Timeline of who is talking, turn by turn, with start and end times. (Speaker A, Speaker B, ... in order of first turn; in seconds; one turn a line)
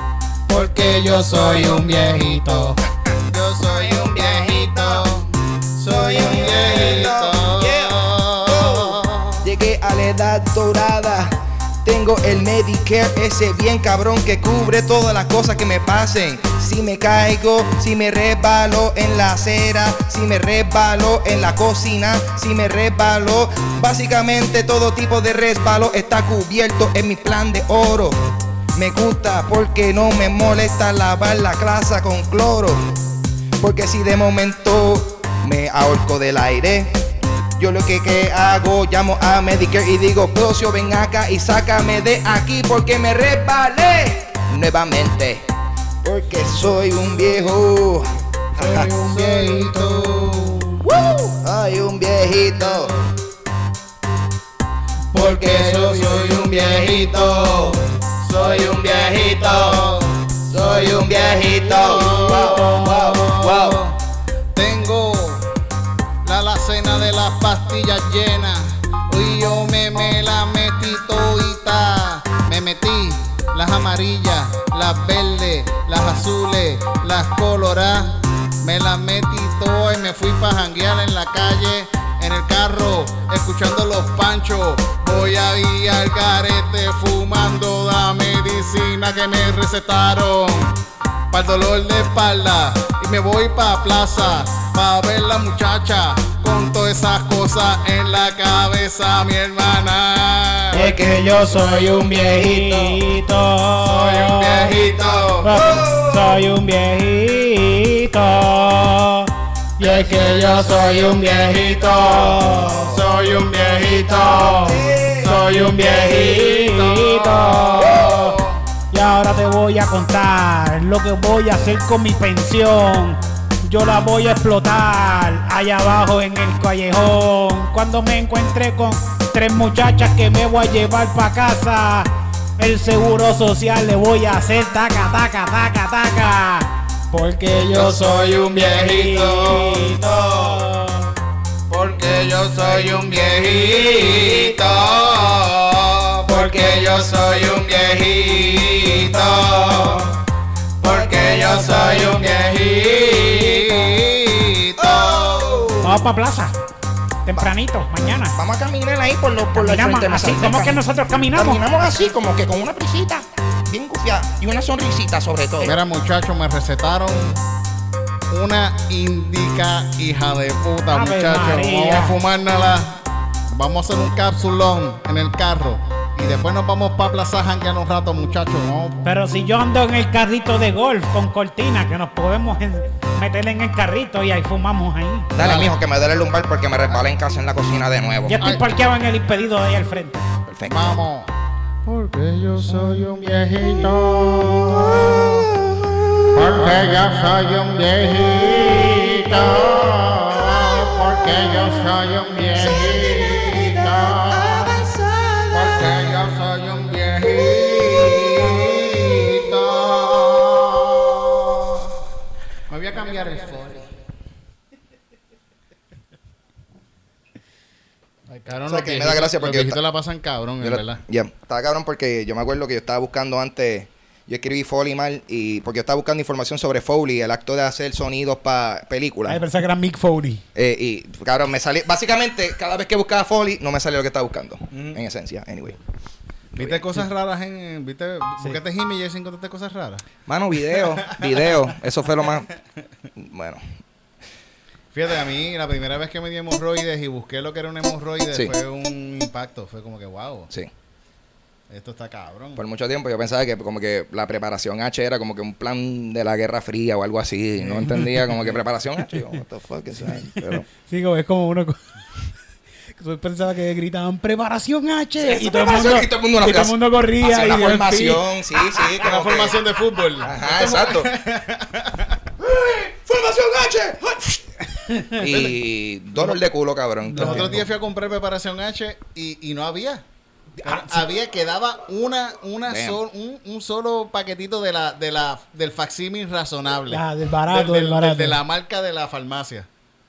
Speaker A: 0.5-9.5
Speaker B: 0.5-2.8
Speaker C: 3.7-5.1
Speaker C: 5.8-28.2
Speaker C: 28.7-33.0
Speaker C: 33.6-37.0
Speaker C: 37.6-45.5
Speaker C: 46.0-48.9
Speaker A: 46.6-47.5
Speaker B: 48.5-50.5
Speaker A: 49.0-50.8
Speaker C: 50.8-52.9
Speaker A: 52.7-53.0
Speaker A: 55.1-64.0
Speaker C: 55.1-57.8
Speaker C: 58.3-63.8
Speaker A: 64.5-65.5
Speaker A: 66.2-90.8
Speaker A: 91.3-100.8
Speaker B: 100.7-104.7
Speaker C: 100.7-103.0
Speaker A: 103.8-105.5
Speaker C: 105.0-106.5
Speaker B: 105.4-113.0
Speaker C: 110.0-112.8
Speaker A: 110.1-118.6
Speaker C: 113.9-115.4
Speaker B: 114.2-118.4
Speaker C: 117.8-118.3
Speaker B: 118.9-141.1
Speaker A: 137.7-140.6
Speaker A: 141.7-150.2
Speaker C: 143.9-144.5
Speaker C: 146.3-146.9
Speaker C: 149.2-149.6
Speaker A: 150.8-155.8
Speaker C: 150.8-152.4
Speaker C: 153.1-153.9
Speaker C: 154.8-156.0
Speaker B: 155.8-156.6
Speaker B: 157.3-158.4
Speaker C: 158.2-160.8
Speaker B: 159.5-161.7
Speaker C: 161.3-165.8
Speaker A: 165.6-167.4
Speaker A: 168.3-173.0
Speaker B: 170.9-172.2
Speaker A: 173.5-179.1
Speaker B: 179.0-185.4
Speaker C: 185.3-188.6
Speaker A: 185.4-185.7
Speaker B: 188.3-190.2
Speaker C: 190.5-191.0
Speaker A: 190.7-191.3
Speaker A: 191.9-195.5
Speaker C: 194.7-197.0
Speaker A: 196.3-204.9
Speaker B: 198.9-199.3
Speaker C: 200.3-201.8
Speaker C: 202.6-206.2
Speaker A: 205.5-211.9
Speaker C: 207.4-209.1
Speaker A: 212.7-213.9
Speaker A: 218.3-221.0
Speaker C: 218.7-219.8
Speaker C: 220.6-229.4
Speaker B: 229.3-230.4
Speaker C: 230.6-235.8
Speaker A: 234.7-235.0
Speaker A: 236.6-240.1
Speaker C: 236.6-236.8
Speaker C: 240.3-242.5
Speaker A: 240.8-241.4
Speaker C: 243.2-243.6
Speaker A: 244.9-250.5
Speaker A: 251.7-252.6
Speaker C: 252.6-260.6
Speaker A: 258.0-258.4
Speaker B: 260.1-262.2
Speaker B: 262.9-268.3
Speaker C: 265.2-269.6
Speaker A: 269.0-272.1
Speaker C: 270.2-271.1
Speaker C: 272.4-274.4
Speaker B: 274.8-275.3
Speaker C: 275.2-277.7
Speaker A: 275.3-275.6
Speaker B: 277.1-277.6
Speaker A: 277.1-280.0
Speaker B: 280.6-281.0
Speaker A: 280.6-289.7
Speaker C: 282.7-283.0
Speaker B: 286.9-288.4